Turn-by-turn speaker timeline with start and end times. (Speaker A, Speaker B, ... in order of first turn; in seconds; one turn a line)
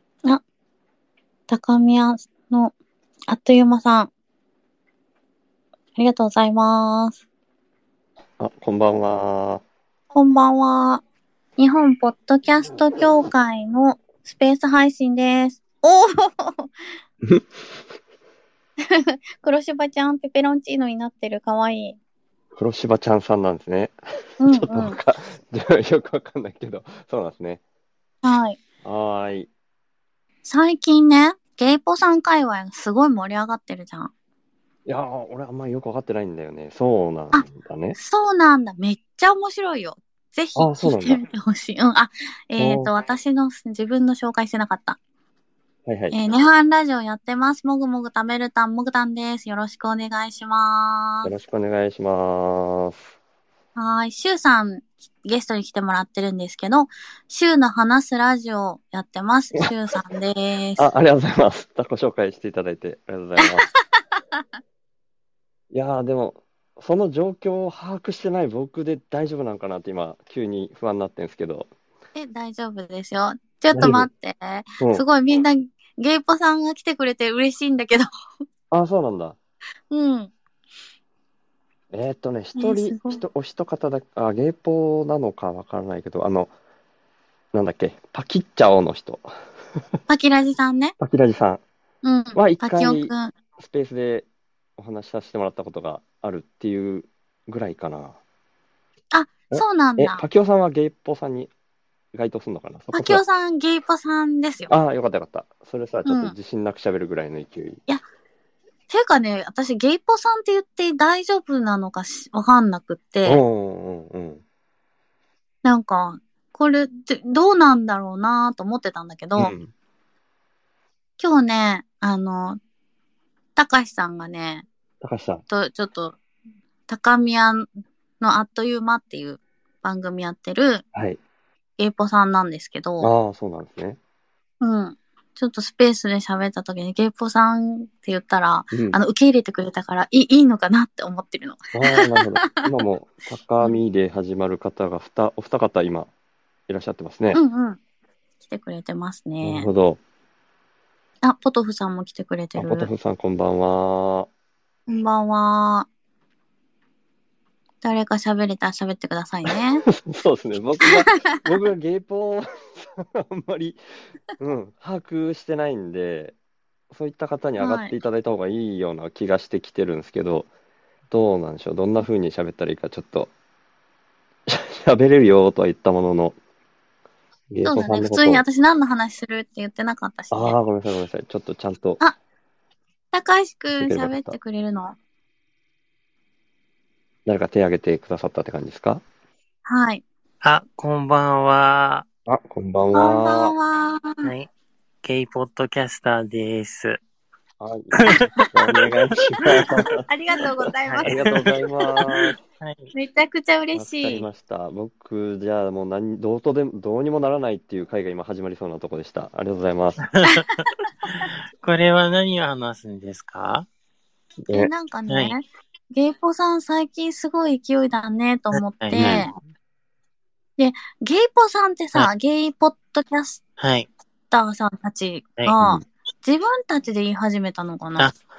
Speaker A: 1.5-2.8
Speaker A: 3.3-4.1
Speaker A: 6.0-7.2
Speaker B: 8.4-9.6
Speaker A: 10.1-11.0
Speaker A: 11.6-16.7
Speaker A: 18.9-22.0
Speaker B: 22.6-27.6
Speaker A: 24.4-25.0
Speaker A: 28.2-28.6
Speaker B: 28.8-29.5
Speaker A: 30.4-34.1
Speaker B: 34.9-38.0
Speaker A: 38.0-45.0
Speaker B: 40.6-41.2
Speaker B: 42.6-42.9
Speaker B: 45.9-46.2
Speaker A: 46.1-51.3
Speaker B: 51.2-53.1
Speaker A: 53.8-60.9
Speaker B: 60.8-63.7
Speaker B: 65.7-71.7
Speaker A: 72.2-78.1
Speaker B: 73.7-74.1
Speaker B: 74.8-75.0
Speaker B: 78.7-79.4
Speaker A: 79.9-80.3
Speaker B: 81.9-86.5
Speaker A: 82.6-83.2
Speaker B: 87.5-89.3
Speaker A: 90.1-90.9
Speaker B: 91.0-91.6
Speaker A: 92.0-93.3
Speaker B: 92.3-98.2
Speaker A: 99.1-100.2
Speaker B: 99.5-101.5
Speaker B: 102.1-103.2
Speaker A: 102.9-104.7
Speaker B: 104.7-107.8
Speaker A: 106.1-106.3
Speaker A: 108.9-113.4
Speaker B: 113.2-114.4
Speaker A: 115.6-119.5
Speaker B: 119.4-119.7
Speaker A: 121.2-122.6
Speaker A: 123.6-124.7
Speaker B: 125.0-125.4
Speaker A: 125.5-126.2
Speaker A: 126.9-127.7
Speaker A: 128.2-130.8
Speaker B: 130.9-131.2
Speaker A: 131.8-133.1
Speaker B: 133.0-134.0
Speaker A: 134.6-142.7
Speaker B: 138.7-139.0
Speaker B: 141.7-146.1
Speaker B: 146.7-147.4
Speaker A: 147.3-147.8
Speaker A: 148.4-149.7
Speaker B: 149.4-150.0
Speaker A: 151.2-152.9
Speaker B: 152.6-154.3
Speaker A: 154.9-155.9
Speaker A: 157.8-159.8
Speaker B: 159.5-163.8
Speaker B: 164.4-166.3
Speaker B: 166.9-170.5
Speaker A: 167.6-167.9
Speaker B: 171.1-173.3
Speaker B: 174.5-176.4
Speaker B: 177.5-178.4
Speaker A: 177.6-180.6
Speaker B: 180.3-182.0
Speaker A: 183.1-185.0
Speaker B: 183.8-184.4
Speaker B: 187.3-189.0
Speaker A: 189.7-190.0
Speaker C: 190.4-192.1
Speaker B: 192.3-193.6
Speaker A: 192.9-194.3
Speaker C: 194.2-194.5
Speaker C: 195.0-197.0
Speaker B: 197.6-200.1
Speaker C: 198.0-198.8
Speaker A: 200.1-201.2
Speaker C: 200.9-202.9
Speaker B: 201.1-202.4
Speaker A: 202.9-204.3
Speaker B: 203.8-210.1
Speaker C: 210.1-213.7
Speaker A: 214.5-219.3
Speaker C: 218.5-219.3
Speaker B: 218.9-219.3
Speaker A: 220.6-223.4
Speaker C: 223.6-223.9
Speaker A: 224.3-228.1
Speaker B: 225.6-225.8